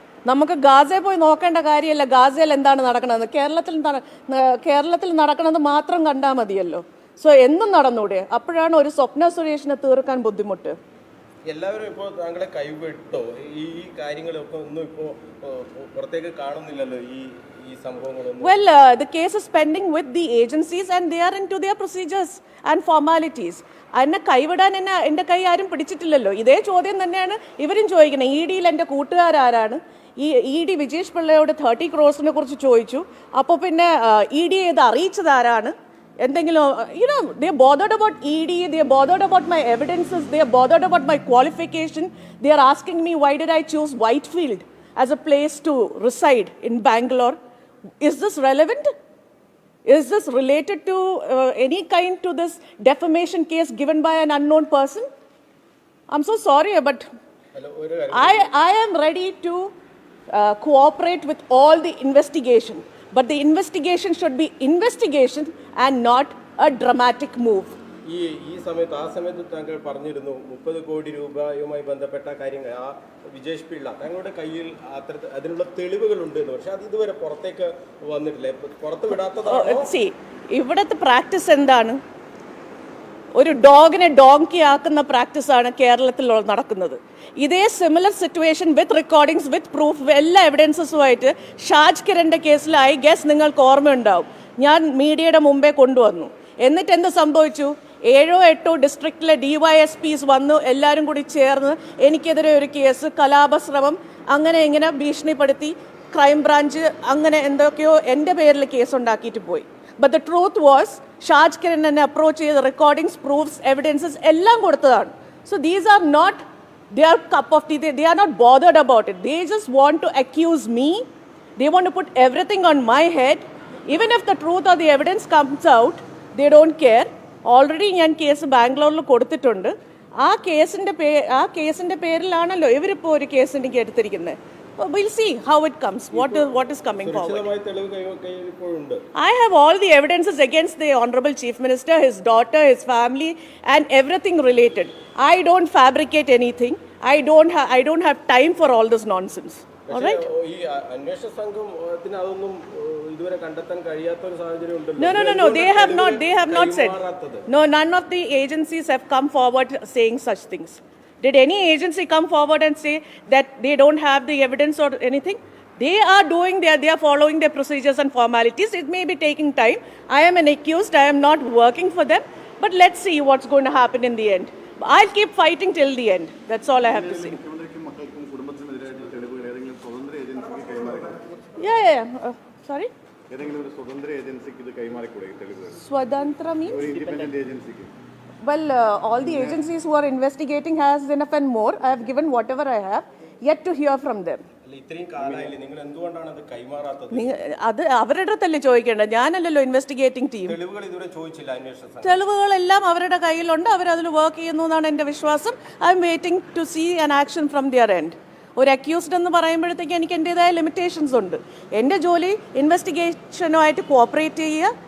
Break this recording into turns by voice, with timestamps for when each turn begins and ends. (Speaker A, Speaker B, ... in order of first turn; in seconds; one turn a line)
Speaker A: 0.2-10.8
Speaker B: 11.5-18.6
Speaker A: 18.4-47.4
Speaker A: 48.0-48.9
Speaker A: 49.9-55.1
Speaker A: 56.1-57.0
Speaker B: 57.5-58.5
Speaker A: 58.1-59.7
Speaker A: 60.3-67.7
Speaker B: 68.1-79.9
Speaker A: 79.4-82.0
Speaker A: 83.3-121.0
Speaker A: 121.6-137.5
Speaker B: 136.1-139.0
Speaker A: 139.2-150.2
Speaker B: 149.9-157.4
Speaker A: 155.0-177.4
Speaker C: 176.8-181.2
Speaker A: 181.6-182.9
Speaker C: 183.3-185.8
Speaker A: 185.8-187.0
Speaker C: 186.7-187.9
Speaker A: 188.4-194.4
Speaker C: 189.2-189.6
Speaker B: 194.6-197.3
Speaker A: 197.1-200.6
Speaker B: 200.4-202.2
Speaker A: 202.0-214.7